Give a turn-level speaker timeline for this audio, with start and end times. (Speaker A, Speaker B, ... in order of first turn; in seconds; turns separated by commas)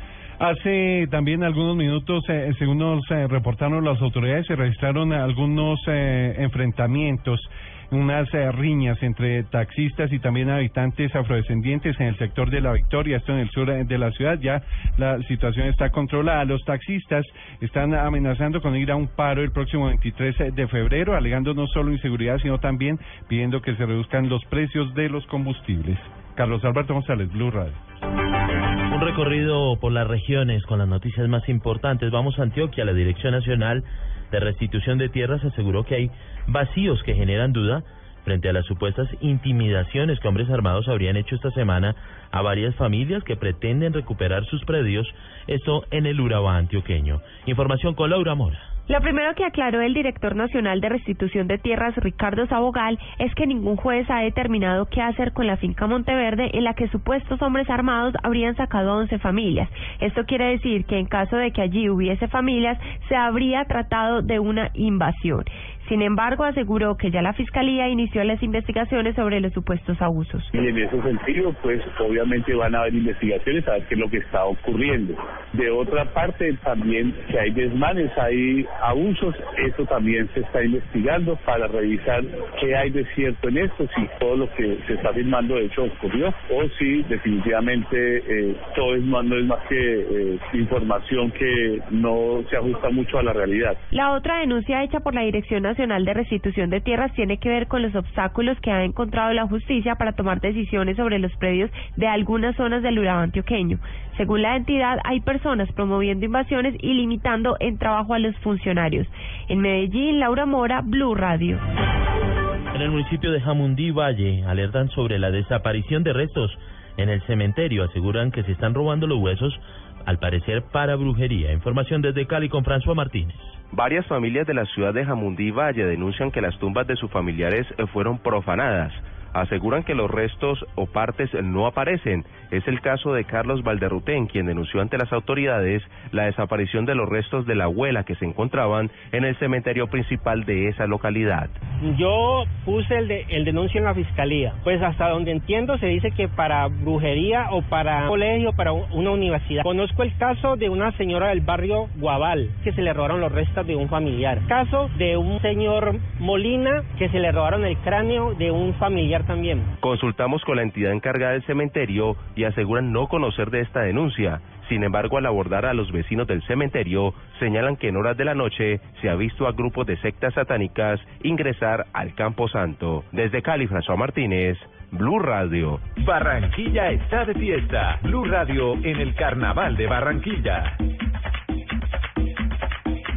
Speaker A: 0.4-27.8, Speaker B: 28.9-48.7, Speaker C: 48.9-70.5, Speaker D: 70.5-93.8, Speaker C: 93.9-111.6, Speaker B: 112.7-123.6, Speaker E: 123.7-141.5, Speaker F: 141.8-159.7, Speaker E: 159.8-175.8, Speaker G: 176.0-180.7